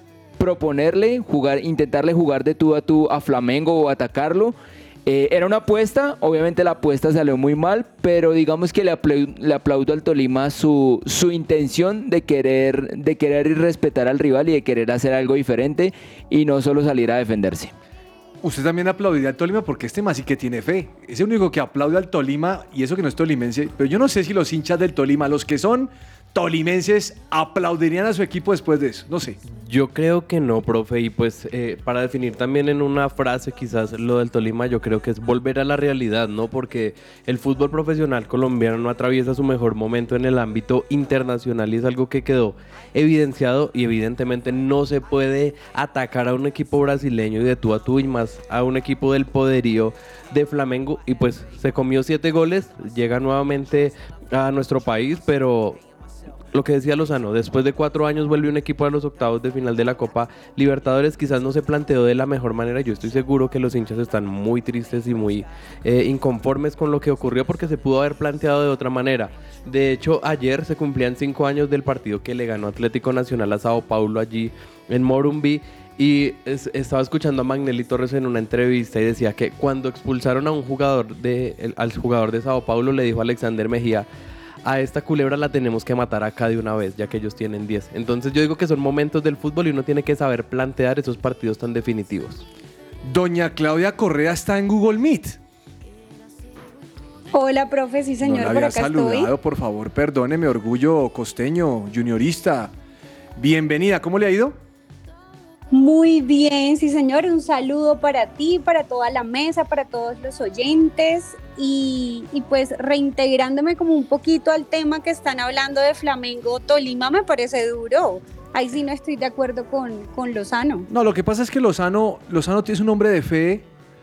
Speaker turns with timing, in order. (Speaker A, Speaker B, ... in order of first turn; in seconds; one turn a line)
Speaker A: 0.4-17.7
Speaker B: 18.4-29.4
Speaker C: 29.5-55.8
Speaker C: 56.5-84.1
Speaker C: 84.7-92.4
Speaker B: 93.0-95.4
Speaker D: 97.3-99.3
Speaker B: 98.2-102.7
Speaker B: 103.4-104.6
Speaker D: 105.7-120.9
Speaker B: 120.9-123.7